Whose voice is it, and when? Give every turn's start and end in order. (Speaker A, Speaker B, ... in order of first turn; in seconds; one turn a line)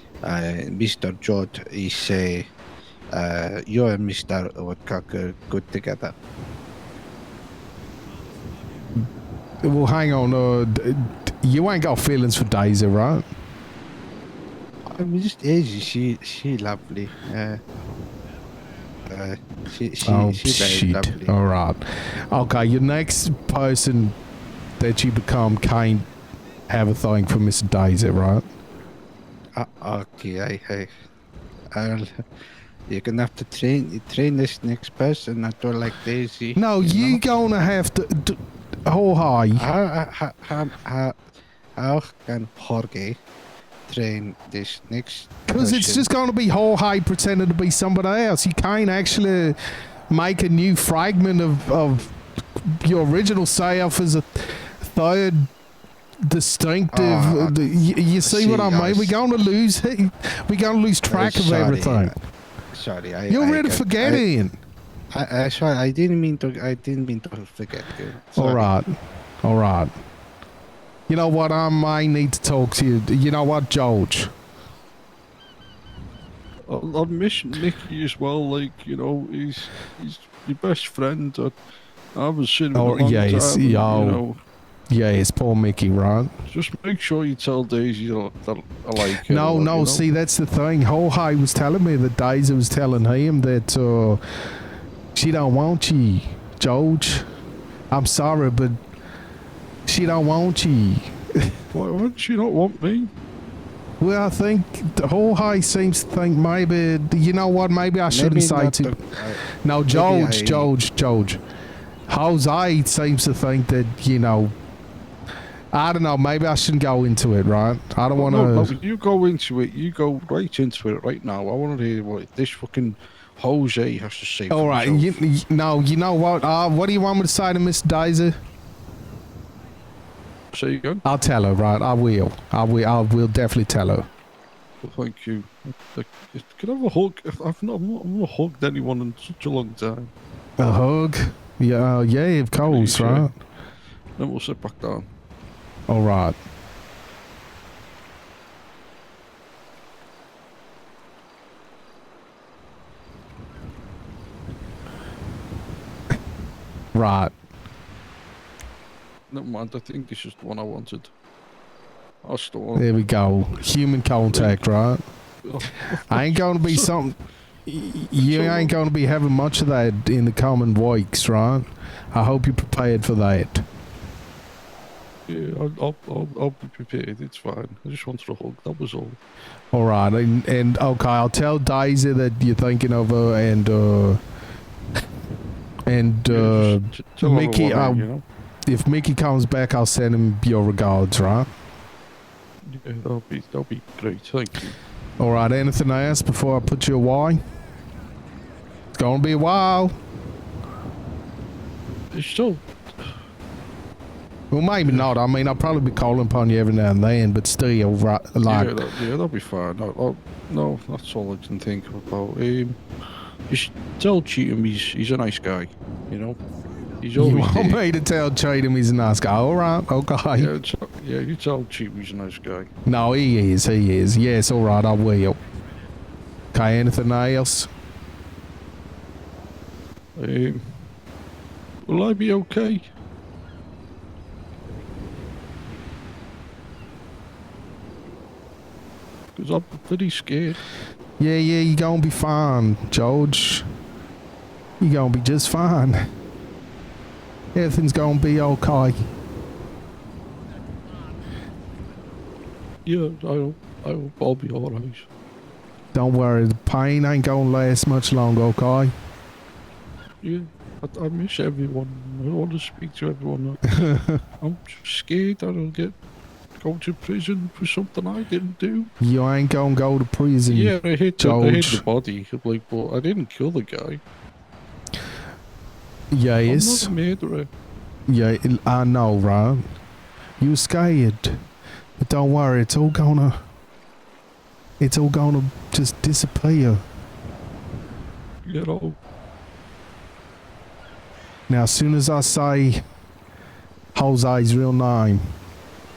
Speaker A: 0.2-2.5
Speaker A: 3.1-6.2
Speaker B: 9.6-13.3
Speaker A: 14.9-17.6
Speaker A: 19.1-21.3
Speaker B: 20.1-24.2
Speaker B: 24.8-26.1
Speaker B: 26.7-28.5
Speaker A: 29.6-30.9
Speaker A: 31.7-32.2
Speaker A: 32.9-37.4
Speaker B: 36.6-39.7
Speaker A: 39.5-41.2
Speaker A: 41.8-43.2
Speaker A: 43.9-46.1
Speaker B: 45.5-49.6
Speaker B: 50.1-55.5
Speaker B: 56.3-62.1
Speaker A: 56.9-57.6
Speaker A: 58.2-59.2
Speaker A: 61.1-62.1
Speaker A: 62.7-64.2
Speaker B: 63.3-64.6
Speaker A: 65.1-68.7
Speaker B: 68.4-68.9
Speaker B: 69.4-69.9
Speaker B: 71.1-74.3
Speaker C: 76.7-81.5
Speaker C: 82.2-84.4
Speaker B: 82.7-84.2
Speaker B: 84.9-86.3
Speaker C: 86.5-90.1
Speaker B: 89.0-94.2
Speaker B: 95.2-97.2
Speaker B: 97.9-98.8
Speaker B: 99.9-101.6
Speaker C: 101.7-103.1
Speaker B: 104.0-109.0
Speaker A: 108.1-110.7
Speaker B: 109.6-111.4
Speaker B: 112.1-114.5
Speaker B: 115.7-118.8
Speaker C: 118.2-122.1
Speaker A: 119.7-125.2
Speaker B: 124.5-128.4
Speaker C: 130.5-131.0
Speaker B: 131.0-134.1
Speaker C: 134.8-140.1
Speaker B: 140.6-143.3
Speaker C: 142.6-143.3
Speaker C: 144.2-145.1
Speaker B: 145.9-146.4
Speaker B: 156.9-157.3
Speaker C: 159.3-161.1
Speaker C: 162.2-163.1
Speaker B: 162.8-165.0
Speaker C: 164.3-164.7
Speaker C: 165.4-166.9
Speaker B: 166.1-173.7
Speaker C: 168.2-168.8
Speaker C: 175.3-179.2
Speaker B: 179.7-184.2
Speaker B: 185.9-188.1
Speaker C: 186.3-188.2
Speaker B: 188.7-191.5
Speaker C: 192.7-194.8
Speaker B: 195.2-197.4
Speaker B: 199.0-200.0
Speaker C: 202.1-202.6
Speaker B: 204.5-208.8
Speaker C: 204.8-205.1
Speaker C: 208.5-212.8
Speaker C: 213.5-215.6
Speaker C: 217.0-217.8
Speaker B: 217.2-220.5
Speaker C: 220.3-222.7
Speaker B: 222.9-225.4
Speaker B: 226.5-227.7
Speaker C: 230.2-230.8
Speaker C: 231.9-232.9
Speaker C: 239.4-240.6
Speaker B: 241.2-243.7
Speaker B: 244.8-246.0
Speaker B: 247.5-249.0
Speaker C: 252.9-255.1
Speaker B: 255.9-258.9
Speaker C: 260.2-263.8
Speaker B: 263.7-264.2
Speaker C: 264.4-265.9
Speaker C: 266.6-268.9
Speaker B: 269.0-271.9
Speaker C: 270.5-274.0
Speaker B: 276.1-276.9
Speaker C: 276.4-277.5
Speaker B: 278.1-279.7
Speaker B: 280.4-281.4
Speaker B: 282.0-283.4
Speaker B: 284.8-286.8
Speaker C: 288.5-289.0
Speaker B: 291.5-292.8
Speaker B: 293.9-295.3